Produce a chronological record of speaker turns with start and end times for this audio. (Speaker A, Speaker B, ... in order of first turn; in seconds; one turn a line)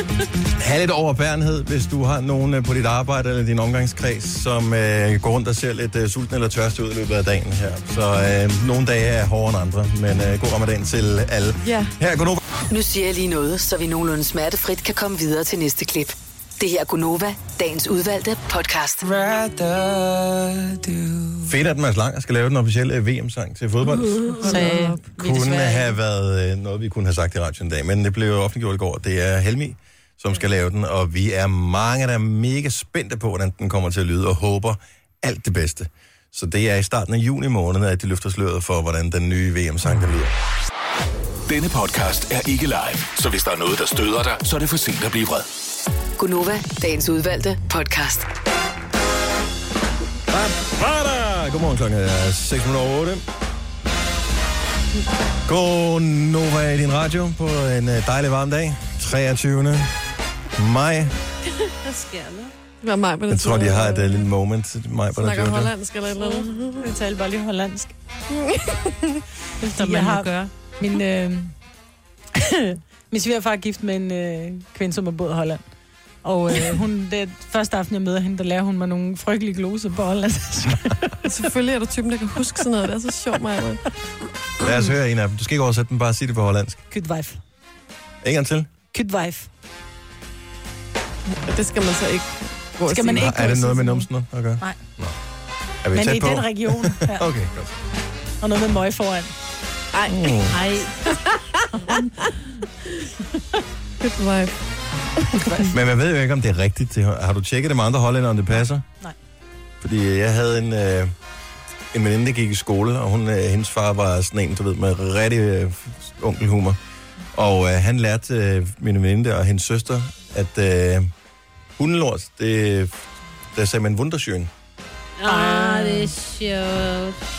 Speaker A: 0.6-12.4
Speaker B: 11.6-11.9
Speaker C: 12.7-19.1
Speaker D: 19.1-21.4
Speaker A: 21.4-24.5
Speaker B: 24.4-25.0
Speaker E: 24.4-26.0
Speaker A: 25.1-40.3
Speaker D: 41.5-45.5
Speaker C: 46.2-48.3
Speaker A: 50.3-53.2
Speaker A: 55.4-59.9
Speaker A: 60.5-61.1
Speaker F: 61.8-62.5
Speaker B: 62.8-64.2
Speaker A: 63.3-65.7
Speaker B: 65.1-66.9
Speaker E: 66.8-67.9
Speaker B: 68.3-68.9
Speaker F: 69.6-70.5
Speaker E: 69.6-71.5
Speaker E: 73.1-75.6
Speaker E: 76.2-81.2
Speaker B: 81.2-83.8
Speaker A: 84.6-86.8
Speaker E: 86.9-87.4
Speaker A: 88.2-88.7
Speaker E: 88.9-89.5
Speaker B: 91.5-94.0
Speaker E: 92.9-93.5
Speaker A: 93.1-95.2
Speaker A: 95.8-97.7
Speaker E: 95.9-97.3
Speaker E: 98.4-99.3
Speaker B: 99.9-100.4
Speaker A: 100.1-100.6
Speaker F: 100.6-100.9
Speaker B: 101.1-102.0
Speaker E: 101.8-102.1
Speaker B: 104.0-104.6
Speaker B: 105.2-105.7
Speaker E: 105.4-105.7
Speaker A: 105.7-108.8
Speaker A: 109.8-111.1
Speaker A: 111.9-116.8
Speaker A: 117.3-121.1
Speaker A: 121.8-123.0
Speaker A: 123.5-124.5
Speaker F: 125.2-127.2
Speaker E: 125.2-126.1